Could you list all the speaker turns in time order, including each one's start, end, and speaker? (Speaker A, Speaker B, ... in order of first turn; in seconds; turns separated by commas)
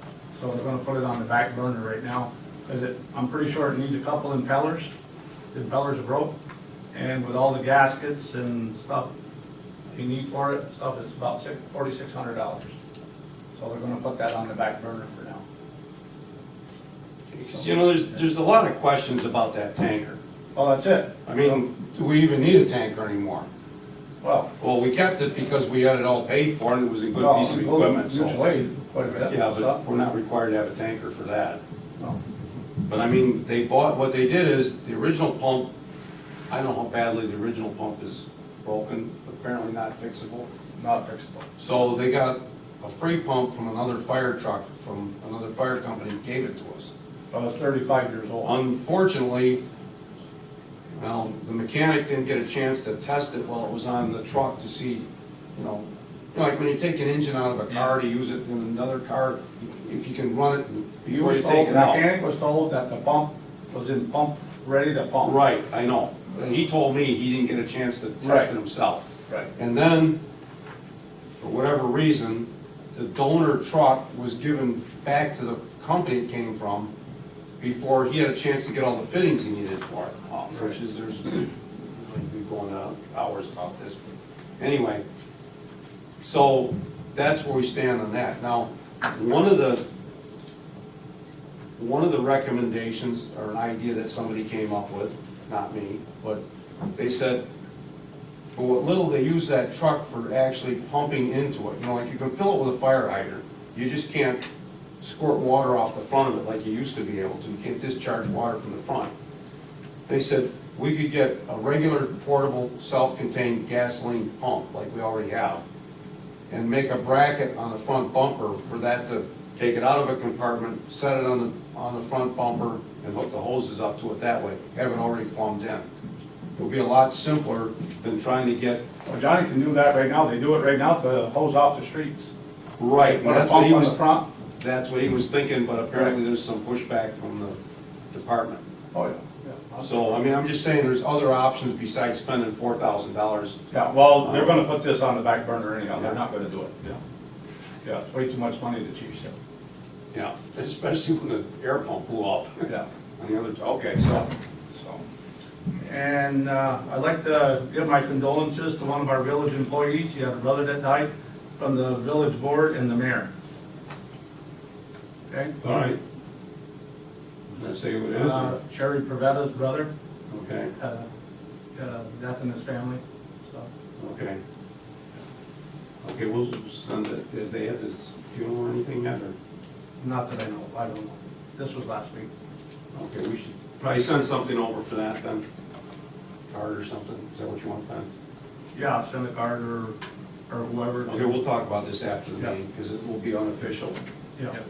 Speaker A: 0.3-4.9, Speaker A: 5.5-6.3, Speaker A: 6.9-9.1, Speaker A: 9.9-12.8, Speaker A: 13.5-15.4, Speaker B: 17.3-20.2, Speaker A: 20.5-21.6, Speaker B: 21.3-23.5, Speaker A: 24.2-24.5, Speaker B: 24.6-28.4, Speaker A: 27.2-29.8, Speaker B: 29.2-31.6, Speaker B: 32.9-35.7, Speaker B: 36.5-40.5, Speaker A: 40.8-41.5, Speaker B: 41.6-46.9, Speaker A: 47.3-48.5, Speaker B: 48.4-49.6, Speaker B: 51.0-62.0, Speaker A: 61.0-65.3, Speaker B: 65.2-69.0, Speaker A: 68.2-68.5, Speaker B: 69.6-70.2, Speaker B: 71.4-76.9, Speaker B: 77.6-84.1, Speaker B: 84.6-85.0, Speaker B: 86.2-89.8, Speaker B: 91.8-96.4, Speaker B: 97.0-97.4, Speaker B: 98.5-104.5, Speaker B: 105.0-109.1, Speaker B: 110.1-115.6, Speaker B: 116.5-125.9, Speaker B: 126.6-128.8, Speaker A: 129.1-132.3, Speaker B: 132.8-134.0, Speaker A: 133.0-134.3, Speaker B: 134.6-137.6, Speaker B: 138.1-138.6, Speaker A: 138.9-140.1, Speaker B: 139.8-143.6, Speaker A: 143.7-147.0, Speaker B: 144.2-144.6, Speaker A: 147.8-149.3, Speaker B: 150.1-154.3, Speaker A: 154.8-155.0, Speaker A: 155.8-163.3, Speaker B: 165.6-166.0, Speaker B: 167.5-168.5, Speaker A: 168.1-169.9, Speaker B: 170.3-170.7, Speaker A: 170.8-171.1, Speaker A: 171.7-173.7, Speaker B: 174.0-174.4, Speaker B: 176.0-179.3, Speaker A: 180.0-182.3, Speaker B: 182.9-185.4, Speaker B: 186.5-188.1, Speaker A: 188.8-190.0, Speaker A: 190.5-191.3, Speaker B: 191.1-194.0